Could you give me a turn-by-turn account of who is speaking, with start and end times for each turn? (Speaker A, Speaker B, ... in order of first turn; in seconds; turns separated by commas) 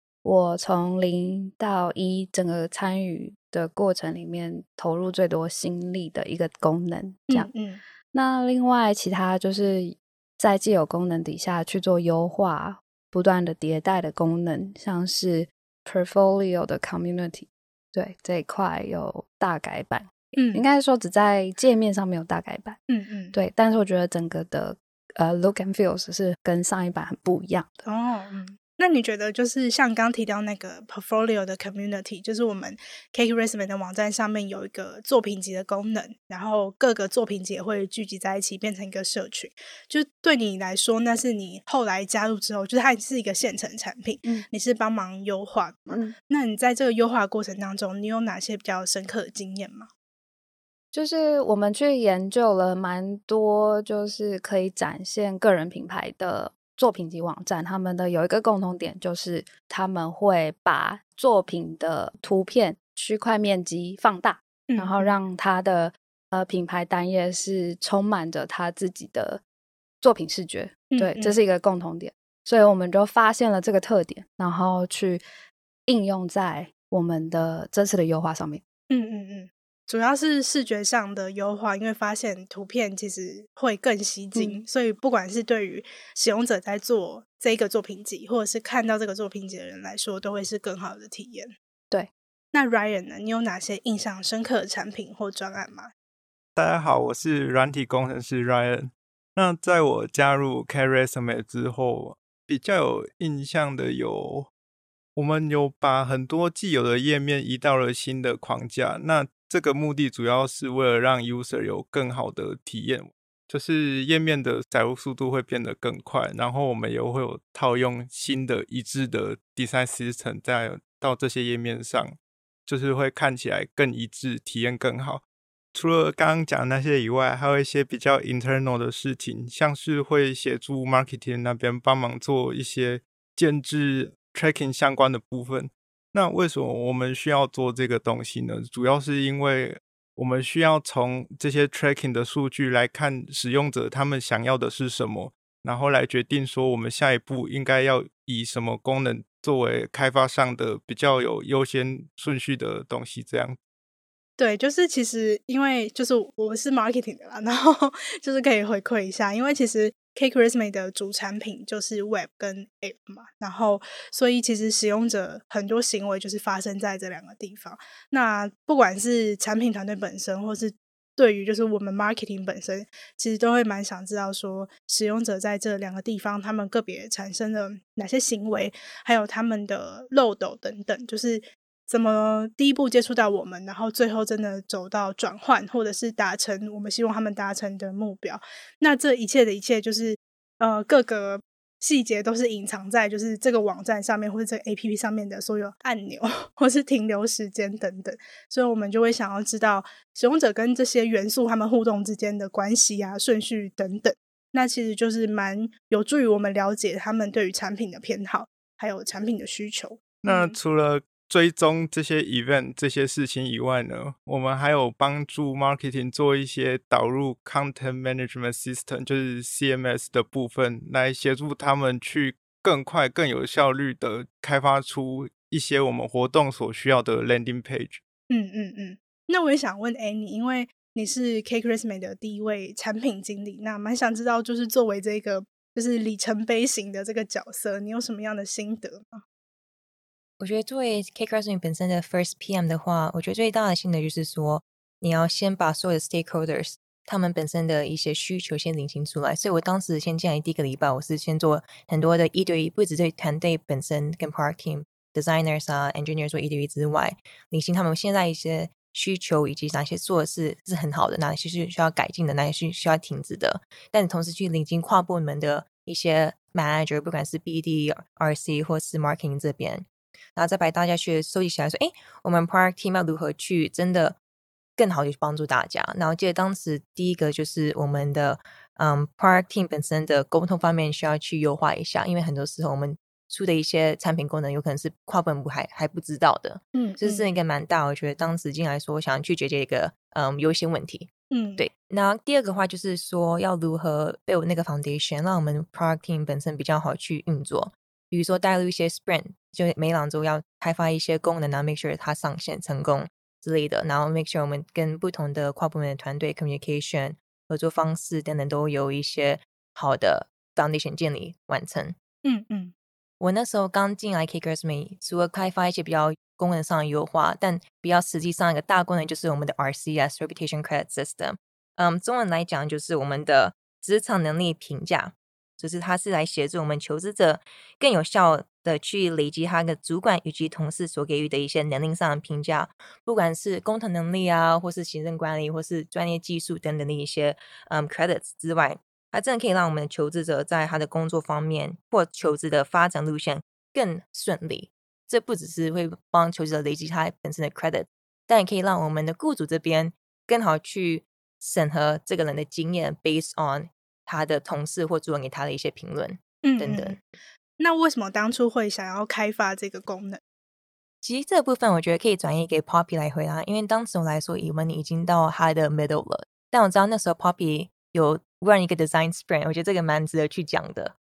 Speaker A: 0.2-7.5, Speaker B: 7.3-7.8, Speaker A: 8.1-22.8, Speaker B: 20.4-20.6, Speaker B: 22.9-23.3, Speaker A: 23.3-27.8, Speaker B: 27.9-49.9, Speaker A: 50.9-69.4, Speaker B: 64.7-65.1, Speaker A: 70.0-75.2, Speaker B: 70.9-71.3, Speaker A: 75.9-78.6, Speaker B: 78.9-91.5, Speaker A: 84.3-84.6, Speaker B: 92.5-95.9, Speaker C: 96.5-104.5, Speaker C: 105.1-125.2, Speaker C: 125.7-153.6, Speaker B: 154.4-210.6, Speaker C: 210.2-228.0, Speaker B: 228.3-239.2, Speaker D: 240.4-274.2, Speaker D: 274.8-312.0, Speaker B: 286.7-287.2, Speaker B: 291.3-291.6, Speaker B: 312.2-312.7, Speaker D: 313.2-356.9, Speaker B: 356.4-357.0, Speaker B: 357.6-360.2, Speaker D: 361.0-370.9